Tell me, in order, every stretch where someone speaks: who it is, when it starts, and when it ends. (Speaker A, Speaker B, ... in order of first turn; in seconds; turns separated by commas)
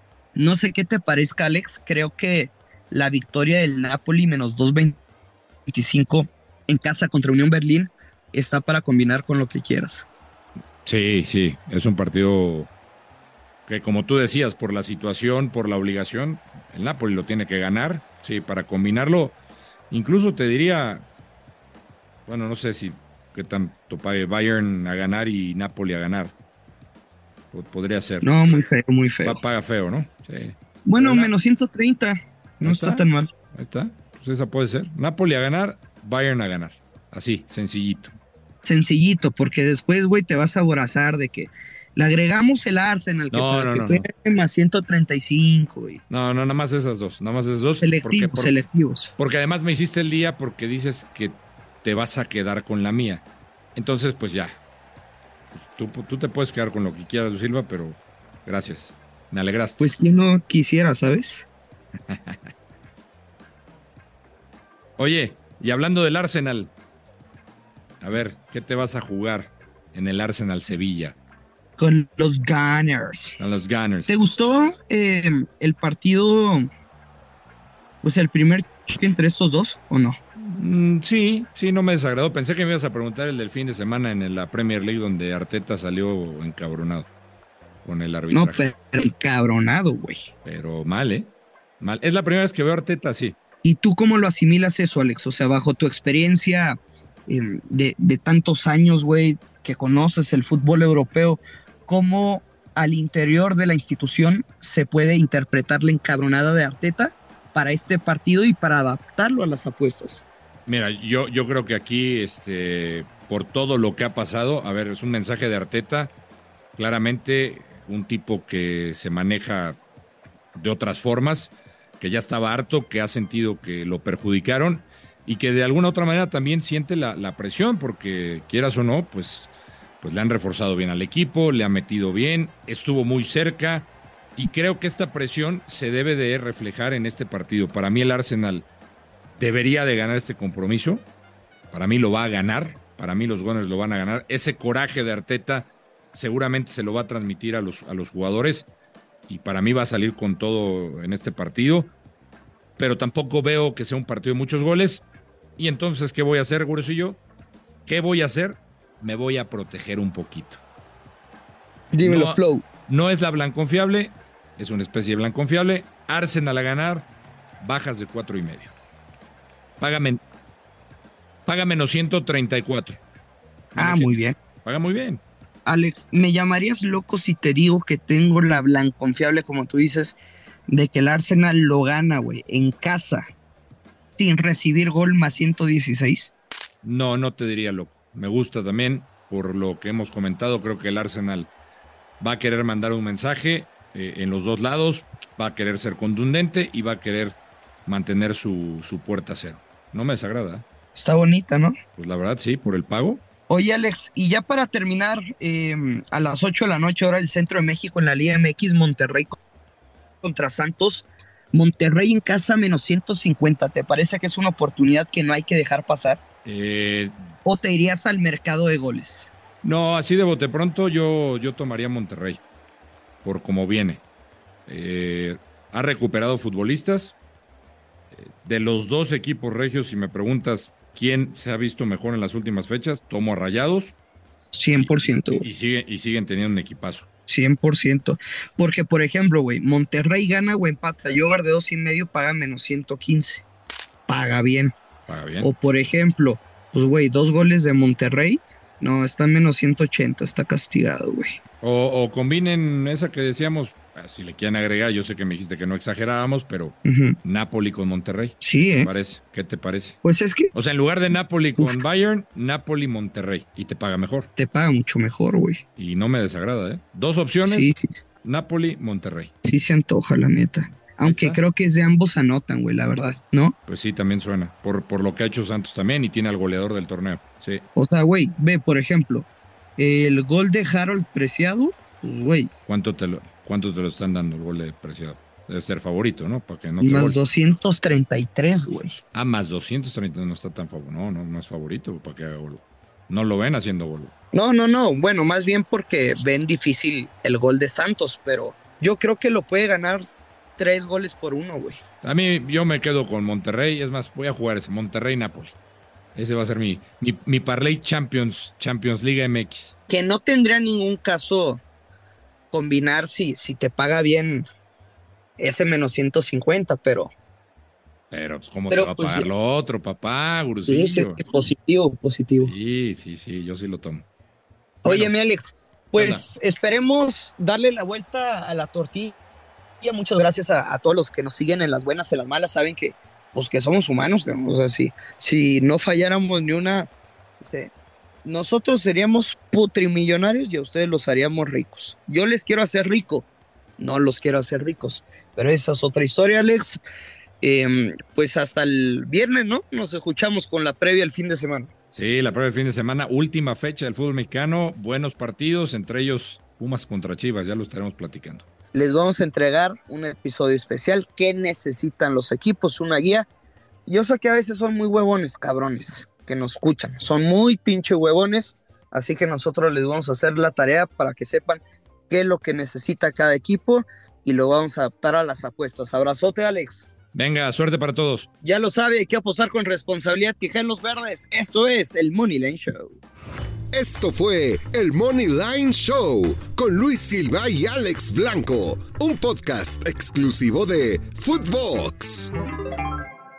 Speaker A: 0.3-5.0, Speaker A: 5.7-10.1, Speaker B: 10.8-12.7, Speaker B: 13.7-19.4, Speaker B: 19.9-21.0, Speaker B: 22.2-26.3, Speaker B: 27.5-28.6, Speaker A: 28.2-29.4, Speaker B: 29.2-31.3, Speaker A: 30.8-33.3, Speaker B: 32.6-38.1, Speaker A: 38.6-46.0, Speaker B: 43.3-44.0, Speaker B: 46.1-48.5, Speaker A: 47.8-49.1, Speaker B: 49.2-53.2, Speaker B: 53.7-54.6, Speaker B: 55.5-59.9, Speaker A: 59.8-61.5, Speaker B: 62.1-62.5, Speaker B: 65.0-66.7, Speaker B: 68.0-71.2, Speaker A: 71.8-73.4, Speaker B: 73.4-74.2, Speaker A: 74.1-76.7, Speaker A: 78.0-80.2, Speaker B: 80.4-87.1, Speaker B: 87.8-88.6, Speaker A: 88.3-90.3, Speaker B: 90.4-93.4, Speaker A: 93.6-110.2, Speaker B: 110.7-116.1, Speaker B: 116.8-119.8, Speaker B: 120.5-138.7, Speaker B: 139.4-141.1, Speaker B: 141.7-148.7, Speaker B: 149.3-151.9, Speaker B: 152.8-155.0, Speaker B: 155.6-157.2, Speaker B: 157.8-160.6, Speaker A: 161.9-162.6, Speaker B: 162.0-167.1, Speaker B: 167.6-168.7, Speaker B: 169.8-170.2, Speaker B: 171.4-173.0, Speaker B: 173.8-175.2, Speaker A: 173.8-174.4, Speaker A: 175.6-183.3, Speaker A: 184.0-186.3, Speaker B: 186.8-191.5, Speaker B: 192.2-200.6, Speaker A: 200.9-201.7, Speaker B: 201.9-203.2, Speaker A: 203.5-209.4, Speaker A: 210.2-216.2, Speaker B: 216.4-217.1, Speaker A: 217.4-219.3, Speaker B: 219.6-222.4, Speaker B: 223.2-224.0, Speaker B: 224.7-227.2, Speaker B: 228.1-234.0, Speaker A: 234.5-235.4, Speaker B: 234.8-237.1, Speaker A: 237.3-243.4, Speaker A: 244.1-244.7, Speaker B: 245.1-245.5, Speaker A: 245.4-251.4, Speaker B: 251.6-260.0, Speaker A: 256.8-257.2, Speaker A: 258.4-258.9, Speaker A: 260.0-260.5, Speaker B: 260.5-264.3, Speaker A: 264.4-265.6, Speaker B: 265.8-269.3, Speaker A: 267.4-268.1, Speaker A: 269.4-273.5, Speaker B: 271.0-271.4, Speaker B: 273.7-277.6, Speaker A: 277.7-282.5, Speaker B: 282.6-287.2, Speaker A: 286.8-289.0, Speaker B: 289.1-294.1, Speaker A: 294.3-300.0, Speaker A: 300.6-301.8, Speaker B: 302.0-305.6, Speaker B: 306.1-309.7, Speaker A: 309.9-311.6, Speaker A: 312.5-314.5, Speaker A: 315.4-317.1, Speaker B: 318.1-321.2, Speaker A: 318.7-319.3, Speaker A: 320.6-322.5, Speaker B: 322.4-324.1, Speaker A: 324.8-329.1, Speaker B: 324.8-325.1, Speaker B: 326.0-326.2, Speaker A: 329.8-336.9, Speaker A: 337.4-337.7, Speaker A: 338.2-343.3, Speaker A: 343.8-346.8, Speaker A: 347.4-351.7, Speaker B: 351.9-358.4, Speaker A: 358.7-363.3, Speaker A: 363.9-376.9, Speaker B: 377.1-378.3, Speaker A: 378.4-383.0, Speaker C: 383.7-392.3